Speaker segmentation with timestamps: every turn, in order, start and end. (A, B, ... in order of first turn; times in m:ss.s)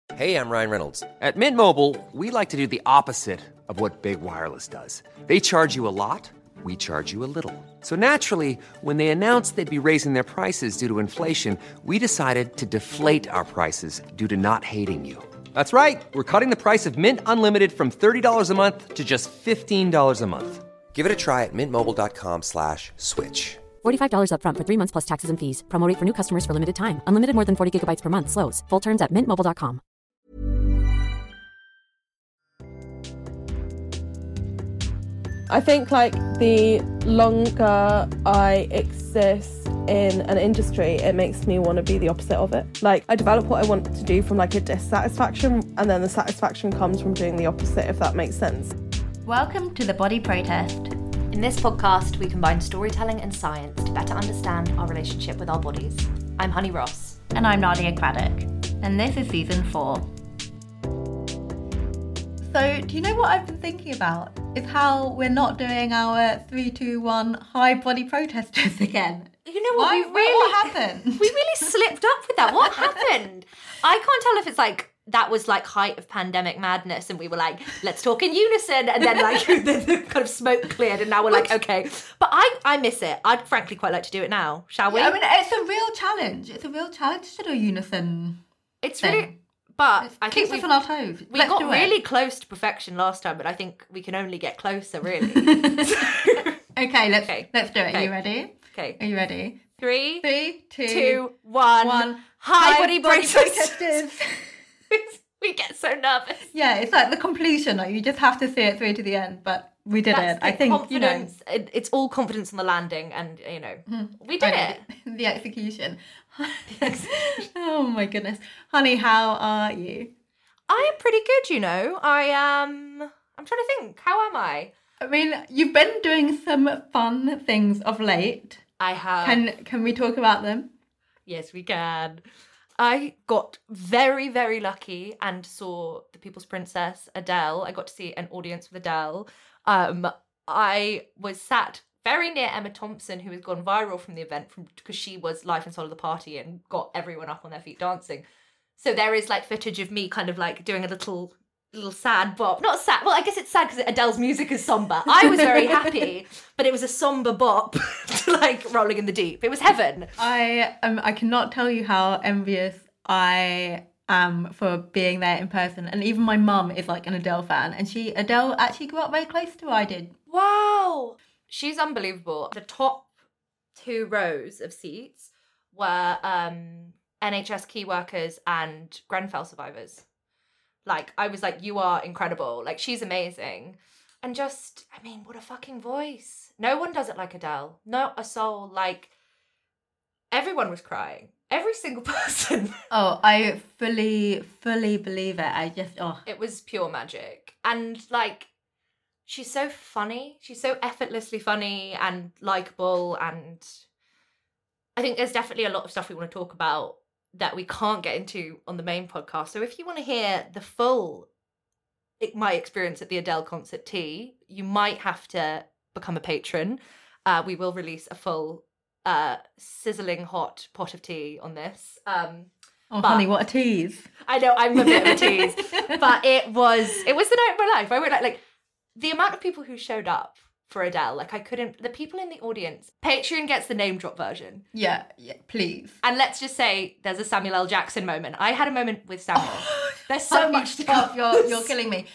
0:00.2-0:23.6 A
0:23.8-0:29.8 B
0:35.5-0:48.7 C
0:49.2-0:50.9 D
0:51.3-0:57.2 E
0:57.3-1:00.1 D
1:02.5-1:11.4 D
1:09.5-1:25.2 E
1:12.6-1:12.9 D
1:21.3-1:21.6 D
1:24.9-1:28.4 D
1:28.8-1:30.7 E
1:29.0-1:29.3 D
1:30.0-1:32.0 D
1:31.3-1:36.6 E
1:35.4-1:39.7 D
1:37.2-1:38.1 E
1:38.7-1:39.0 E
1:39.8-1:40.2 E
1:40.2-1:41.2 D
1:40.9-1:44.1 E
1:41.8-1:44.5 D
1:44.9-1:46.5 E
1:46.5-1:51.3 D
1:50.1-1:54.8 E
1:53.9-2:00.1 D
1:56.7-1:57.3 E
2:00.7-2:04.7 E
2:05.0-2:08.6 D
2:08.8-2:09.4 E
2:09.2-2:10.7 D
2:11.3-2:12.2 E
2:12.8-2:28.2 E
2:28.8-2:40.1 E
2:40.2-2:50.1 D
2:50.3-2:53.1 E
2:53.8-3:00.0 E
3:00.8-3:09.1 E
3:10.3-3:12.8 E
3:12.9-3:16.2 D
3:16.3-3:18.5 E
3:19.3-3:23.8 E
3:25.0-3:31.3 E
3:32.2-3:42.5 E
3:42.9-3:44.1 D
3:43.0-3:43.3 E
3:44.2-3:48.4 E
3:44.8-3:46.1 D
3:49.0-3:54.6 E
3:54.7-3:56.0 D
3:56.0-4:01.7 E
3:59.4-4:02.1 D